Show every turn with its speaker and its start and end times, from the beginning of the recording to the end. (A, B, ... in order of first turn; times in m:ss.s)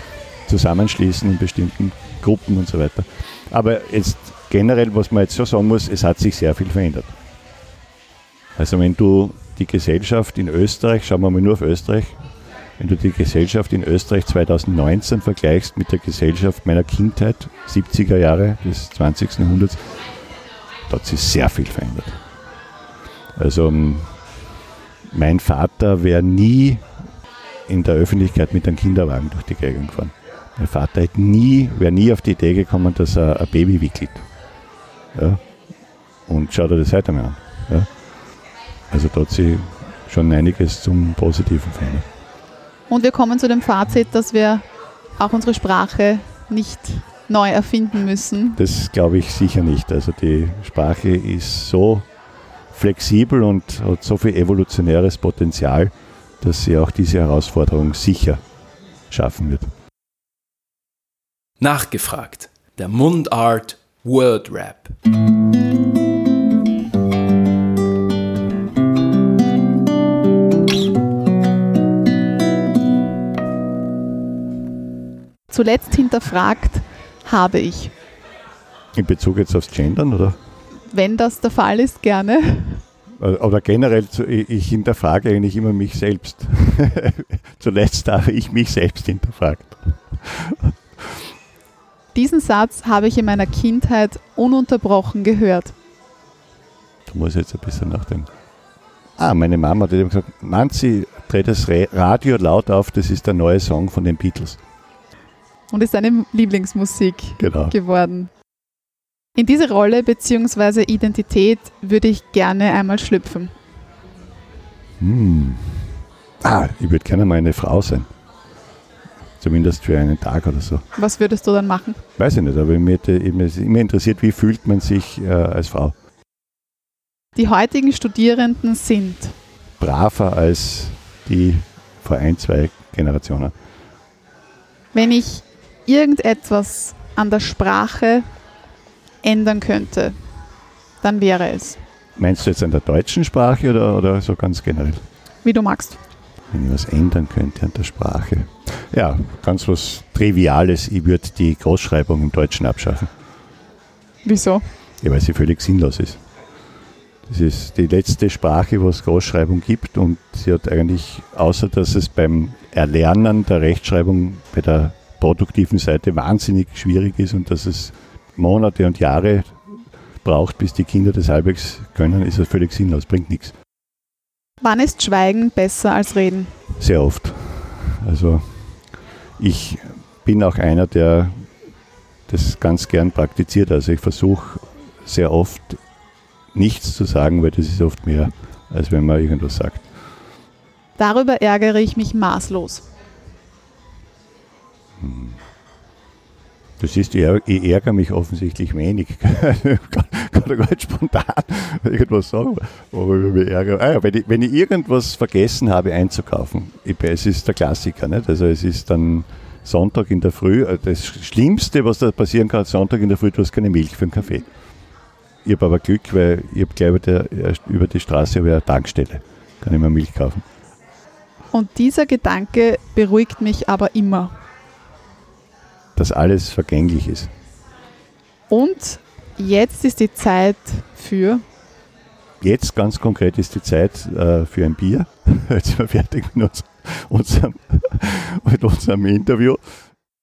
0:00.5-0:07.1 A
0:08.6-0:12.2 A
0:12.8-0:20.0 A
0:20.9-0:22.2 A
0:23.4-0:24.1 A
0:25.1-0:26.9 A
0:27.7-0:34.2 A
0:35.1-0:35.4 A
0:36.3-0:37.9 A
0:38.9-0:42.1 A
0:42.9-0:44.6 B
0:45.2-0:48.6 B
0:48.6-0:52.1 A
0:52.7-0:58.4 A
0:59.1-0:59.7 A
1:01.6-1:05.0 C
1:15.5-1:17.9 B
1:18.9-1:20.4 A
1:20.9-1:22.8 B
1:23.2-1:31.3 A
1:32.1-1:35.8 B
1:37.0-1:38.3 A
1:39.2-1:44.6 A
1:45.7-1:48.3 B
1:47.4-1:47.7 A
1:49.4-1:53.5 B
1:55.0-1:58.1 A
1:59.4-2:00.8 A
2:01.0-2:02.0 B
2:02.2-2:05.9 A
2:07.4-2:09.3 B
2:09.8-2:13.5 A
2:14.9-2:18.2 B
2:19.2-2:20.2 B
2:21.0-2:21.8 B
2:22.2-2:25.0 A
2:25.4-2:26.0 B
2:26.5-2:33.1 A
2:34.2-2:34.6 B
2:35.0-2:36.2 A
2:37.2-2:49.6 A
2:50.2-2:53.5 A
2:54.6-2:56.5 B
2:56.8-2:58.6 A
2:59.4-3:01.4 A
3:02.3-3:05.8 A
3:06.5-3:09.8 A
3:11.0-3:12.8 B
3:15.0-3:15.4 A
3:16.8-3:34.5 A
3:35.4-3:40.4 A
3:41.5-3:44.4 B
3:46.0-3:47.3 A
3:48.5-3:51.4 B
3:52.4-3:59.6 A